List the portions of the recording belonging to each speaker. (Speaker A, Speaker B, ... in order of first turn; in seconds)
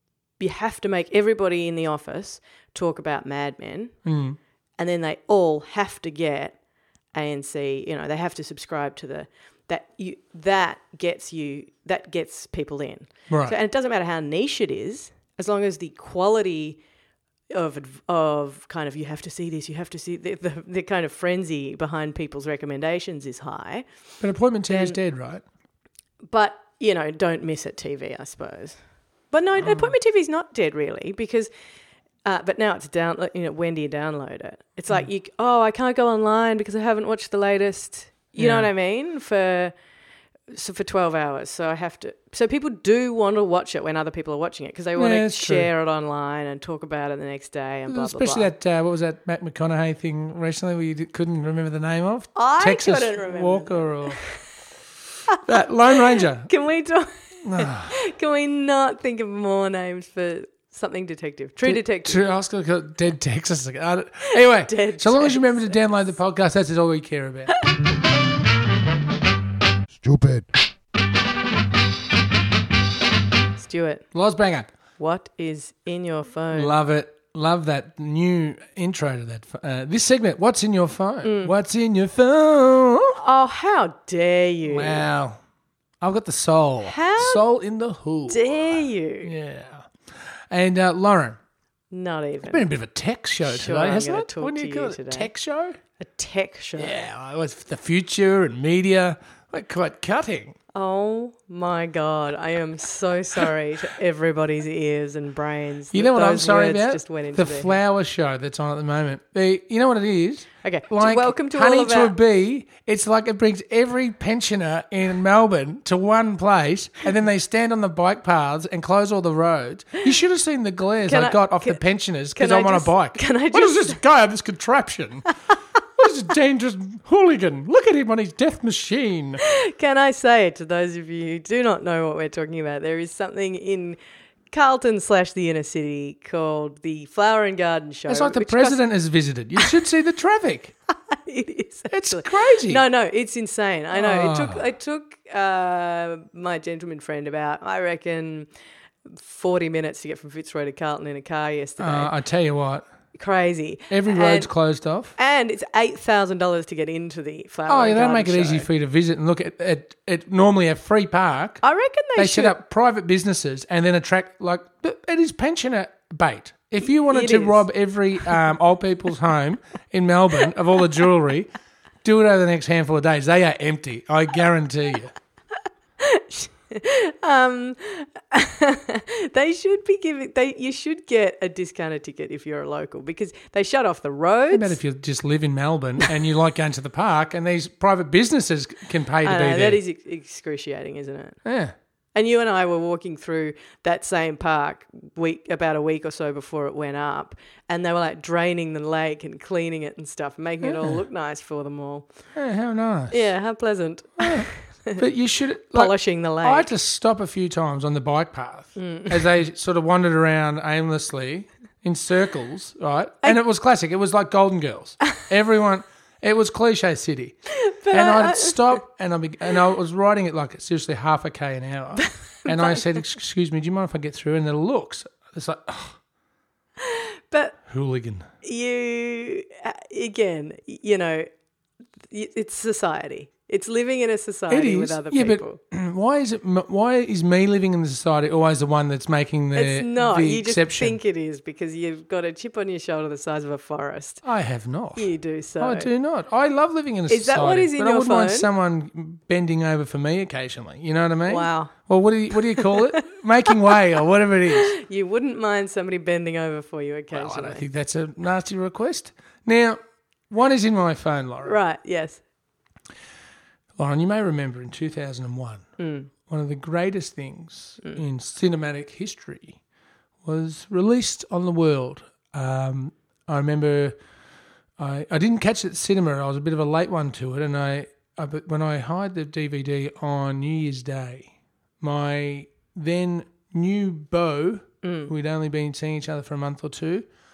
Speaker A: 0.4-4.0, 4.8-6.6, 7.1-16.8, 17.5-23.9, 24.7-25.0, 26.3-28.8, 29.3-31.5, 32.2-39.7, 40.5-48.5, 52.4-54.3, 56.1-62.2, 64.3-65.7, 73.6-74.0, 75.0-76.8, 81.2-81.5, 83.2-85.0, 86.8-87.4, 88.3-89.3, 91.9-92.7, 93.4-95.3, 96.0-97.0, 100.7-107.8, 110.6-112.1, 121.1-121.8, 122.3-124.0, 129.4-134.0, 134.5-138.8, 141.1-148.5, 149.1-152.1, 153.1-154.5, 155.2-158.7, 161.6-162.6, 166.9-167.7, 176.0-184.8, 189.2-191.4, 192.2-202.1, 203.1-205.0, 205.7-206.7, 208.8-209.2, 217.5-218.8, 222.0-222.8, 226.8-227.6, 228.4-231.3, 232.1-235.6, 239.5-244.2, 245.0-245.9, 247.1-248.5, 251.3-251.7, 252.5-253.1, 254.5-257.6, 261.4-262.2, 265.8-266.1, 284.8-285.1
Speaker B: 4.0-4.4, 13.3-13.6, 24.2-25.4, 29.6-29.9, 38.4-38.7, 45.0-45.7, 47.9-54.2, 55.4-56.5, 57.4-57.9, 61.6-67.5, 74.1-74.7, 76.5-83.2, 84.6-85.4, 86.0-89.9, 90.5-91.4, 92.5-95.8, 96.8-100.6, 105.9-125.3, 126.0-129.4, 138.1-140.7, 141.9-142.8, 143.9-144.6, 151.8-152.9, 153.9-155.1, 157.7-161.6, 162.2-171.5, 172.0-175.1, 184.5-189.8, 191.4-191.7, 200.6-201.0, 202.3-203.3, 204.2-217.4, 217.9-226.0, 227.7-228.3, 234.5-241.0, 244.2-254.7, 257.1-259.8, 260.3-261.6, 263.8-265.7, 266.2-269.6, 270.2-273.9, 274.8-287.1